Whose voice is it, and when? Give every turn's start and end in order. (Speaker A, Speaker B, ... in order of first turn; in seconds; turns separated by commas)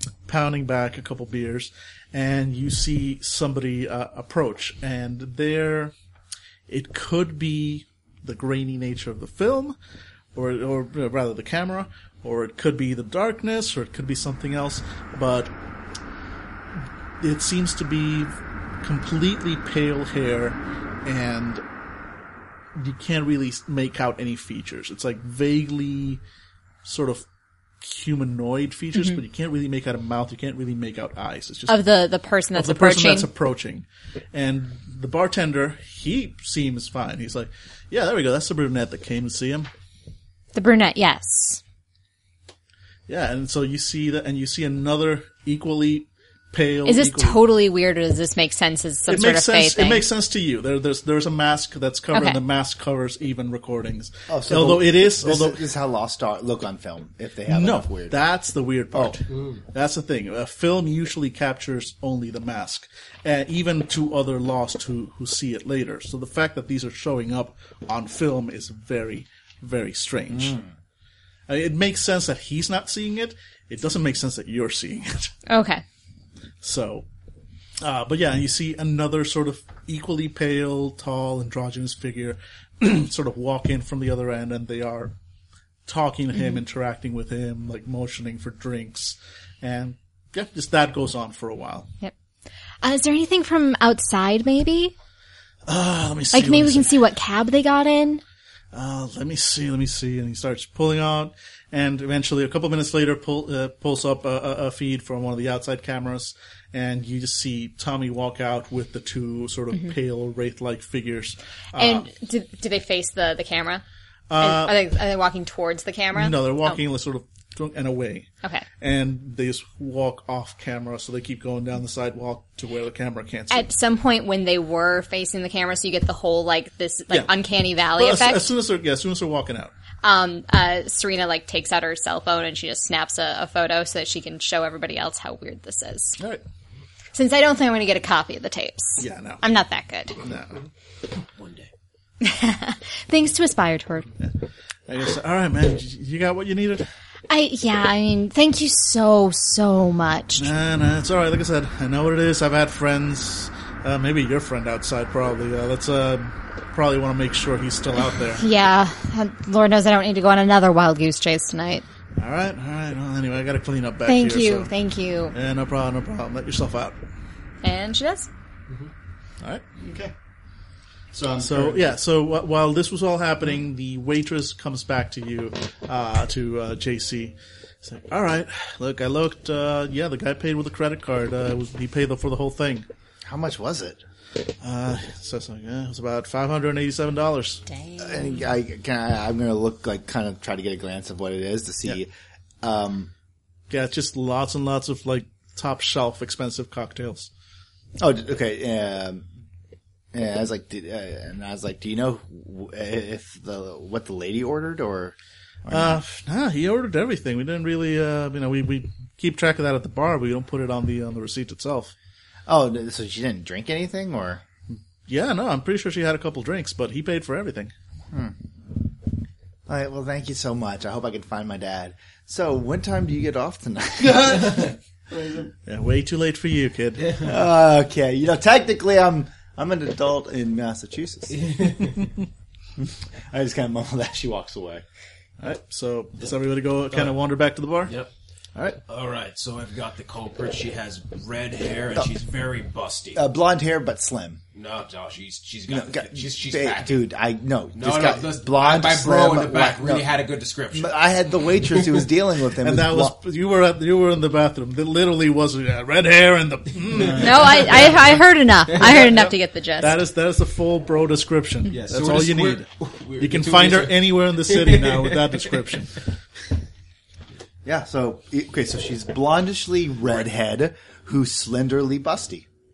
Speaker A: 0.3-5.9, Speaker A: 6.7-9.8, Speaker A: 10.3-15.5, Speaker A: 17.2-21.6, Speaker A: 22.8-26.2, Speaker A: 26.9-27.2, Speaker A: 27.8-31.9, Speaker B: 31.7-33.3, Speaker A: 32.5-39.7, Speaker B: 40.5-41.6, Speaker A: 43.1-47.4, Speaker B: 46.9-50.0, Speaker A: 49.1-55.6, Speaker B: 52.1-52.4, Speaker C: 54.3-58.2, Speaker A: 57.5-70.6, Speaker C: 70.3-70.7, Speaker A: 71.5-75.3, Speaker B: 75.5-75.8, Speaker A: 76.6-77.1, Speaker A: 77.8-85.1, Speaker A: 85.9-91.9, Speaker B: 92.8-94.9, Speaker A: 95.7-96.9, Speaker B: 96.3-98.2, Speaker A: 98.7-112.1, Speaker B: 111.8-113.8, Speaker A: 114.3-114.8, Speaker B: 114.4-116.8, Speaker A: 116.1-118.3, Speaker A: 118.8-123.7, Speaker B: 123.5-128.5, Speaker A: 128.0-129.7, Speaker B: 130.0-136.2, Speaker B: 137.1-140.2, Speaker A: 139.0-139.4, Speaker A: 140.2-140.6, Speaker D: 141.3-141.7, Speaker B: 142.2-144.1, Speaker A: 144.9-146.9, Speaker B: 147.3-150.5, Speaker A: 150.4-158.4, Speaker B: 158.3-161.8, Speaker A: 162.2-164.7, Speaker B: 164.1-165.3, Speaker A: 165.3-167.0, Speaker B: 167.6-168.3, Speaker E: 169.8-170.1, Speaker E: 171.1-171.9, Speaker A: 171.4-182.9, Speaker C: 183.2-184.0, Speaker A: 184.6-187.6, Speaker B: 187.7-188.3, Speaker C: 188.0-192.1, Speaker C: 192.6-193.1, Speaker A: 193.7-197.3, Speaker C: 198.0-199.3, Speaker C: 200.1-206.0, Speaker A: 205.7-211.9, Speaker C: 212.4-214.4, Speaker A: 215.1-217.7, Speaker C: 218.1-218.4, Speaker C: 219.7-224.7, Speaker E: 224.0-225.5, Speaker A: 225.7-227.2, Speaker D: 227.1-227.3, Speaker C: 227.2-231.6, Speaker D: 231.3-232.1, Speaker C: 232.8-234.8, Speaker A: 235.4-237.9, Speaker D: 237.9-238.1, Speaker D: 238.9-243.2, Speaker C: 243.1-244.4, Speaker D: 244.5-247.1, Speaker C: 245.7-250.2, Speaker D: 247.8-251.0, Speaker C: 250.7-253.2, Speaker A: 252.6-258.0, Speaker B: 257.1-260.0, Speaker A: 258.8-259.3, Speaker A: 259.8-266.0, Speaker D: 261.7-265.6, Speaker C: 267.6-272.4